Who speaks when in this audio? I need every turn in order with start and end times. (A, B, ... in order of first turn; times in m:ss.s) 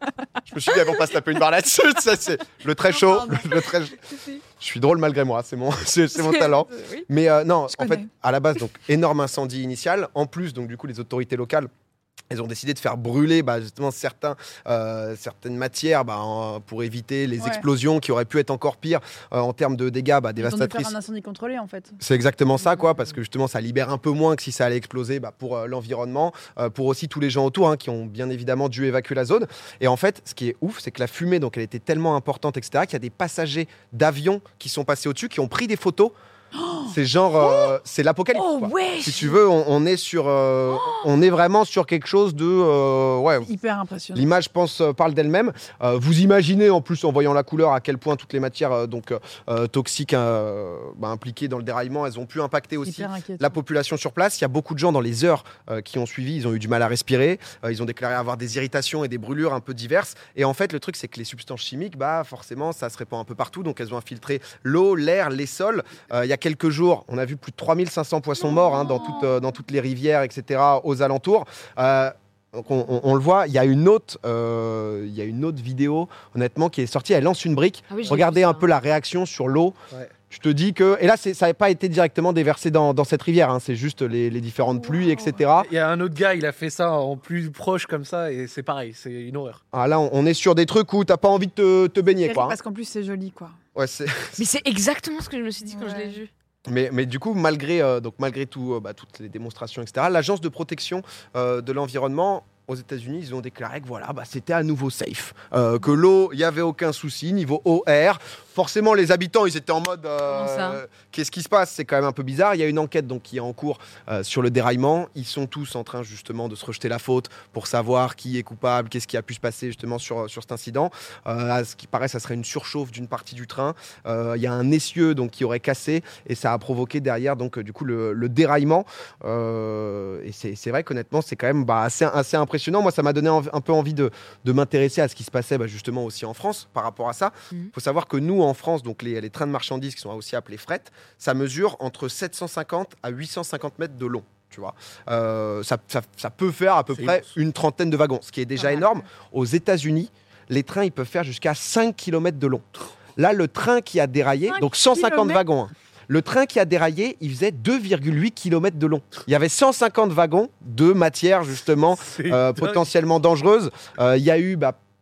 0:00.5-0:11.7 A
0:03.1-0:03.4 B
0:06.2-0:07.0 C
0:07.7-0:08.1 B
0:12.3-0:21.0 A
0:17.4-0:17.6 B
0:20.4-0:22.0 B
0:22.0-0:36.1 A
0:36.5-0:37.7 B
0:36.9-0:43.5 A
0:38.3-0:39.3 B
0:43.4-0:44.3 B
0:44.1-1:19.8 A
0:52.8-0:53.6 B
1:17.9-1:18.6 C
1:20.3-1:25.7 A
1:24.7-1:25.3 B
1:25.6-1:29.6 D
1:29.7-1:32.6 A
1:32.2-1:33.6 B
1:33.7-1:34.4 A
1:34.4-1:36.3 C
1:35.7-1:36.2 B
1:36.7-2:44.8 A
1:50.3-1:50.8 C
2:26.9-2:27.3 D
2:34.5-2:35.4 B
2:42.0-2:42.8 D